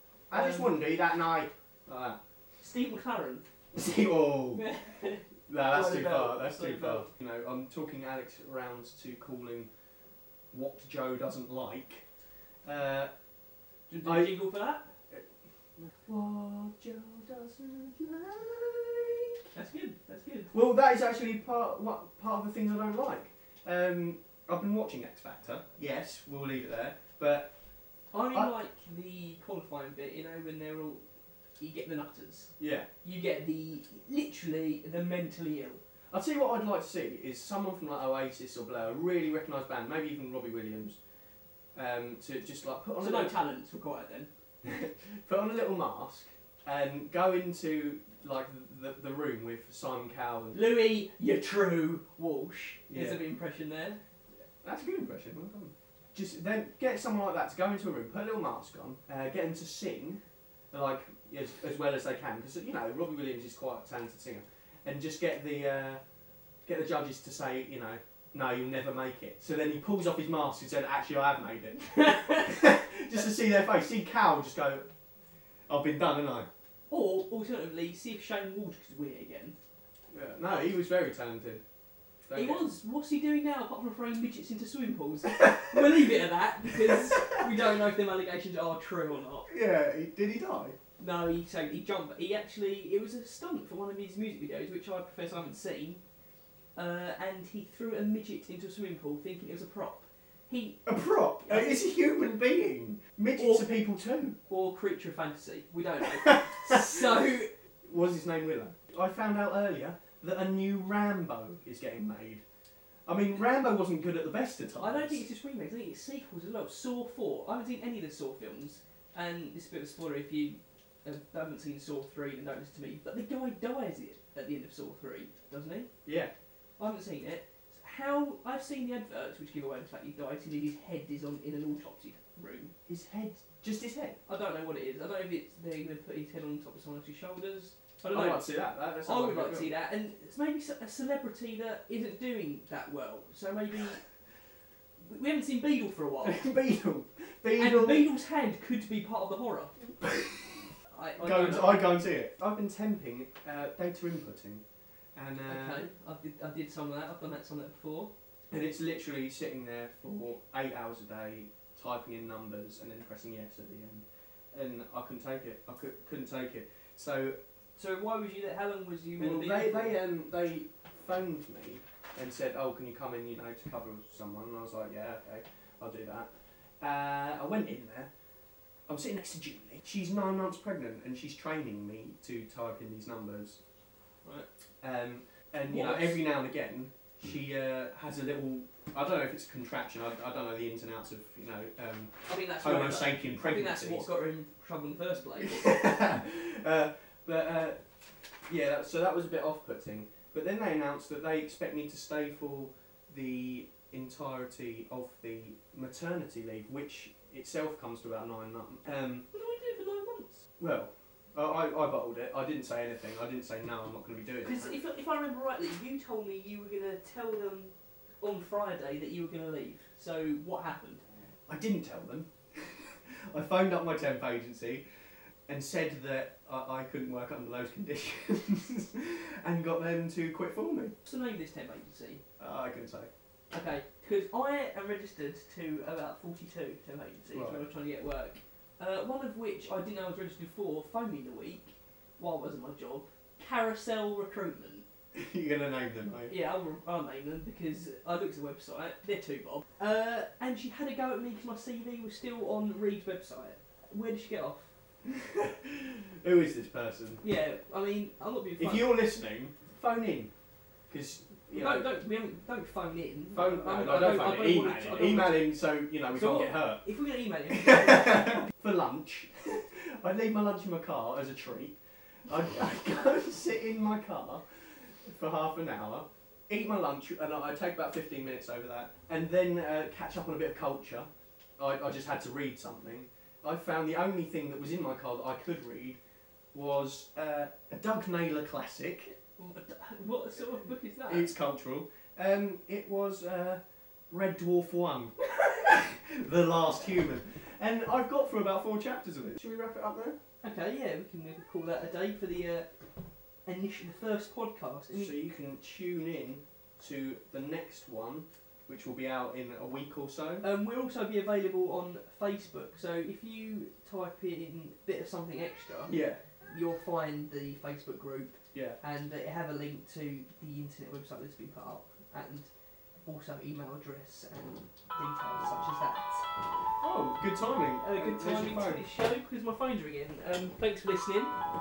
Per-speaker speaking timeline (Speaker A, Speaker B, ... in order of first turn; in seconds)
Speaker A: 0.3-2.2, 3.7-4.7, 5.5-9.7, 10.5-12.0, 12.7-13.1, 14.1-14.4, 16.0-19.5, 20.5-27.5, 32.6-32.9, 36.1-41.0, 41.8-43.4, 44.6-50.6, 52.9-53.2, 54.6-60.2, 60.7-66.0, 66.7-74.9, 75.7-76.5, 80.1-81.6, 82.3-82.7, 86.9-87.3, 89.5-90.8, 100.9-104.4, 106.9-107.2, 107.8-112.4, 113.1-115.2, 126.0-126.3, 132.9-134.2, 138.1-139.8, 146.2-148.1, 150.0-154.6, 155.2-155.9, 158.5-167.4, 169.2-178.1, 178.9-183.6, 184.8-194.1, 195.4-197.8, 198.5-209.3, 210.6-214.8, 221.5-224.8, 225.5-230.9, 232.4-233.1, 237.3-237.7, 245.1-246.4, 255.1-257.2, 258.6-260.3, 260.9-261.9, 263.3-266.8, 267.5-286.0, 286.5-289.1, 291.1-300.2, 304.9-310.5, 315.9-316.2, 326.8-328.9
Speaker B: 0.3-0.9, 2.6-3.5, 4.5-7.1, 13.9-14.9, 19.5-20.5, 28.1-31.1, 31.6-35.8, 43.0-44.3, 50.5-54.0, 72.0-72.6, 76.9-79.6, 82.3-89.5, 91.0-96.0, 96.8-101.9, 103.4-103.8, 104.5-107.5, 114.8-125.9, 126.8-132.7, 134.3-144.0, 145.0-146.5, 147.6-149.8, 150.9-152.0, 155.5-158.1, 167.8-170.0, 185.7-186.2, 192.3-195.9, 209.3-210.4, 214.4-221.0, 231.0-232.2, 233.5-244.9, 246.3-254.7, 257.2-259.0, 261.5-265.5, 266.1-268.5, 289.4-291.3, 300.4-302.7, 303.4-305.2, 310.4-316.0, 316.5-322.5, 323.1-326.3, 327.8-331.4